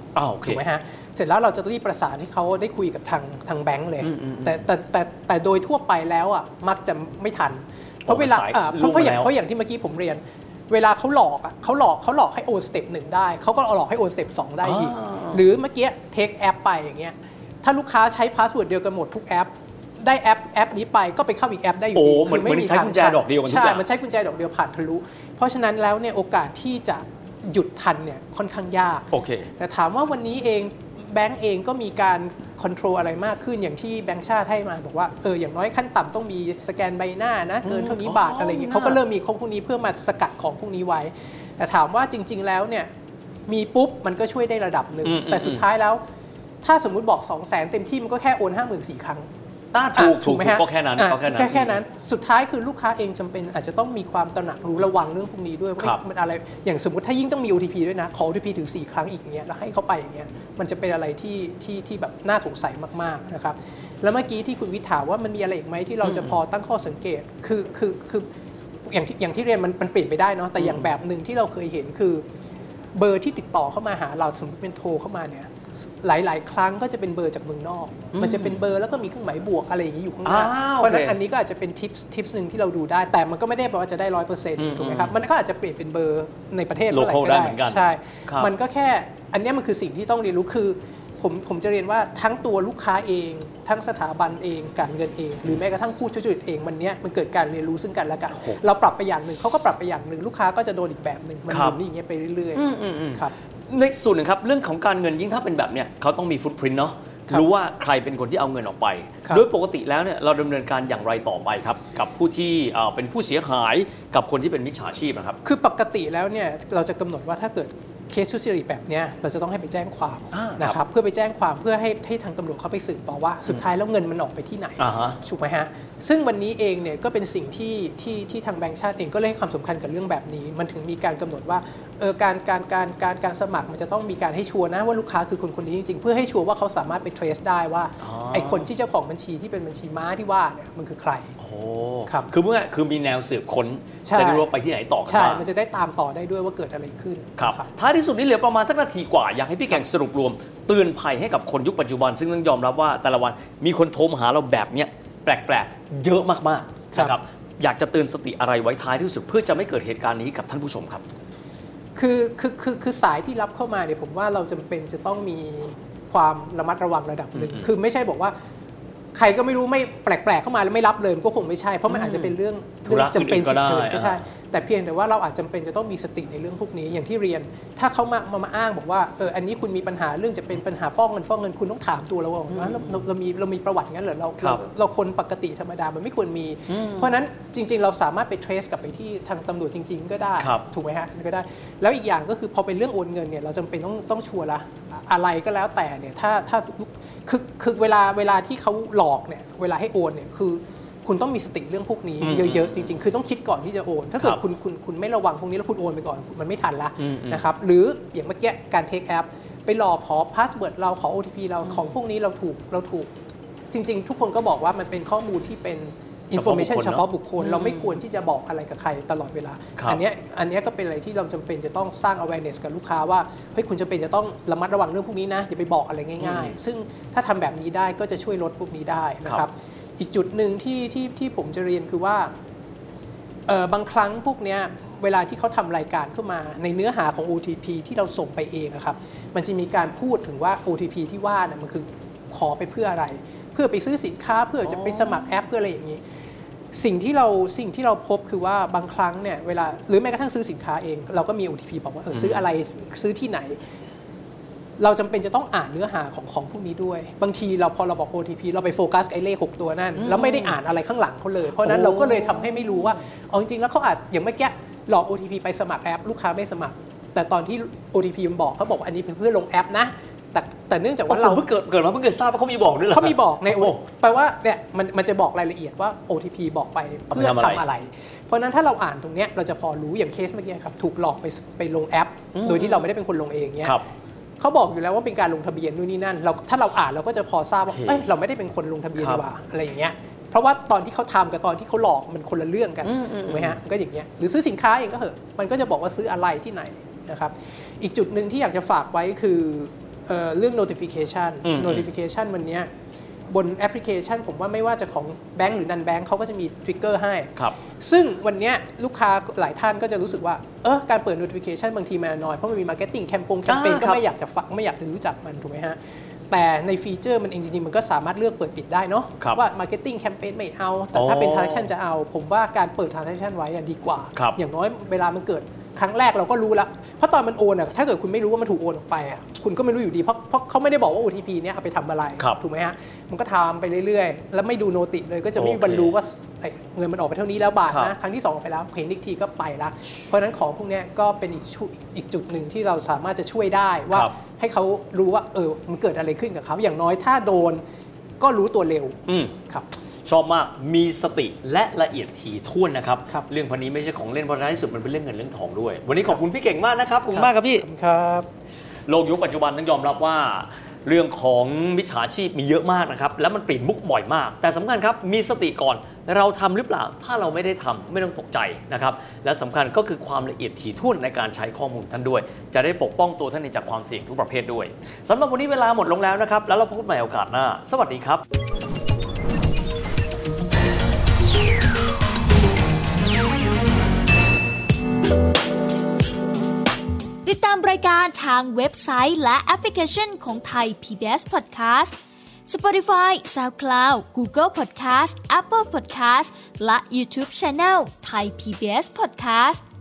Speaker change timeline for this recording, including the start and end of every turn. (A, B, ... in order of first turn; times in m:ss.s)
0:00.1-0:00.6 A
0:00.4-0:42.9 B
0:04.0-0:04.6 A
0:08.0-0:09.3 A
0:14.6-0:15.4 A
0:21.9-0:23.8 A
0:29.1-0:29.5 A
0:37.6-0:39.0 A
0:43.5-0:46.0 B
0:45.0-0:45.6 A
0:46.6-0:49.3 B
0:49.7-0:51.8 A
0:49.9-1:08.3 B
1:06.0-1:06.4 A
1:08.9-1:12.2 B
1:10.6-1:10.8 A
1:12.9-1:15.5 B
1:16.0-1:43.3 B
1:18.1-1:18.6 A
1:20.2-1:21.2 A
1:24.6-1:25.1 A
1:26.9-1:28.5 A
1:41.5-1:41.8 A
1:42.5-1:55.4 A
1:55.4-2:21.3 B
2:00.3-2:00.8 A
2:04.8-2:05.2 A
2:18.0-2:18.7 A
2:21.4-2:25.4 A
2:22.0-2:22.3 B
2:24.0-2:24.5 B
2:25.0-2:27.7 B
2:27.4-2:41.0 A
2:42.0-2:48.3 B
2:47.3-2:47.7 A
2:49.1-3:33.1 B
2:51.9-2:52.3 A
2:52.8-2:54.2 A
3:02.5-3:03.0 A
3:06.7-3:07.2 A
3:10.4-3:10.6 A
3:22.2-3:22.9 A
3:27.0-3:27.4 A
3:33.7-3:52.3 B
3:36.3-3:38.0 A
3:46.2-3:46.6 A
3:53.5-4:06.0 B
4:04.6-4:05.2 A
4:06.7-4:13.6 B
4:12.1-4:12.4 A
4:14.8-4:31.4 B
4:20.0-4:20.6 A
4:21.6-4:22.8 A
4:31.1-4:33.8 A
4:32.9-4:43.8 B
4:37.1-4:37.6 A
4:42.3-4:42.9 A
4:44.4-5:02.7 B
4:47.7-4:48.0 A
4:49.0-4:49.2 A
4:52.8-4:53.6 A
5:01.4-5:01.9 A
5:03.3-5:15.8 B
5:13.5-5:14.0 A
5:16.3-5:47.6 B
5:20.9-5:21.7 A
5:35.4-5:35.9 A
5:48.2-5:49.7 B
5:49.1-5:49.3 A
5:50.0-5:57.6 A
5:57.1-5:58.3 B
5:58.9-6:18.2 A
6:27.2-6:31.9 C
6:32.5-6:39.6 C